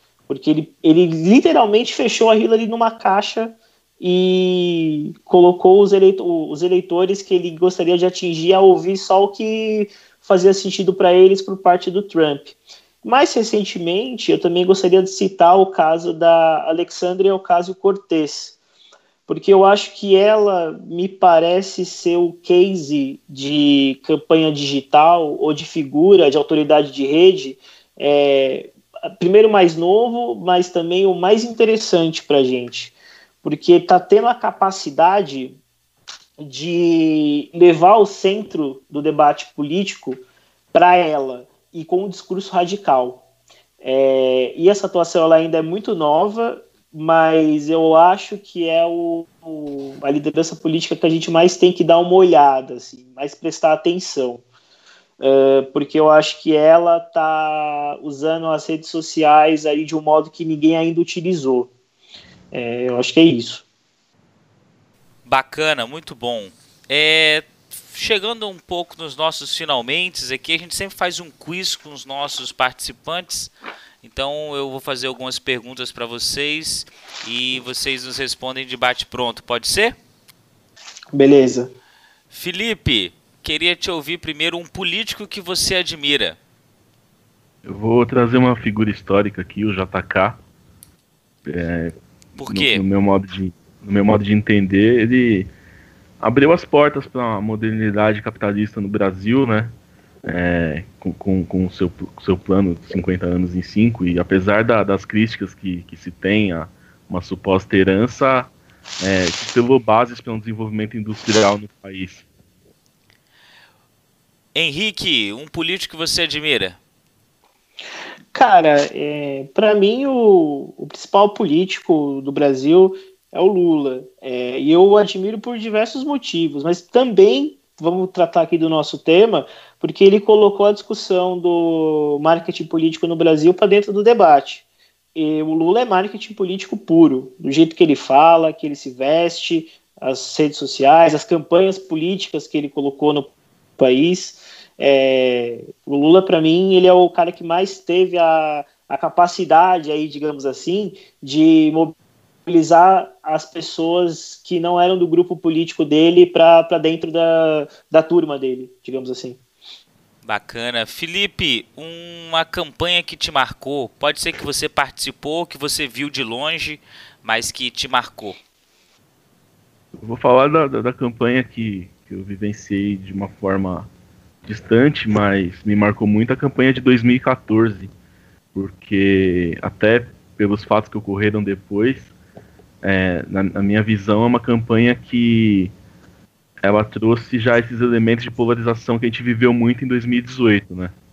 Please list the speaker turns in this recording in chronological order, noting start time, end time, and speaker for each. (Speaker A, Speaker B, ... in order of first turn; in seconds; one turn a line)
Speaker A: 0.3-18.6
Speaker A: 19.3-35.6
Speaker A: 36.4-40.2
Speaker A: 40.7-43.2
Speaker A: 43.8-54.4
Speaker A: 55.2-61.7
Speaker A: 62.5-63.6
Speaker B: 65.3-80.0
Speaker A: 81.1-81.7
Speaker B: 82.3-86.4
Speaker C: 87.7-90.4
Speaker C: 91.5-95.5
Speaker B: 92.4-92.8
Speaker C: 96.2-99.7
Speaker C: 100.2-112.2
Speaker B: 114.5-116.8
Speaker A: 118.3-134.6
Speaker A: 135.2-151.9
Speaker A: 152.5-159.4
Speaker B: 160.2-168.4
Speaker C: 170.0-173.9
Speaker C: 174.4-177.9
Speaker C: 178.5-182.1
Speaker C: 182.8-185.7
Speaker C: 186.6-190.9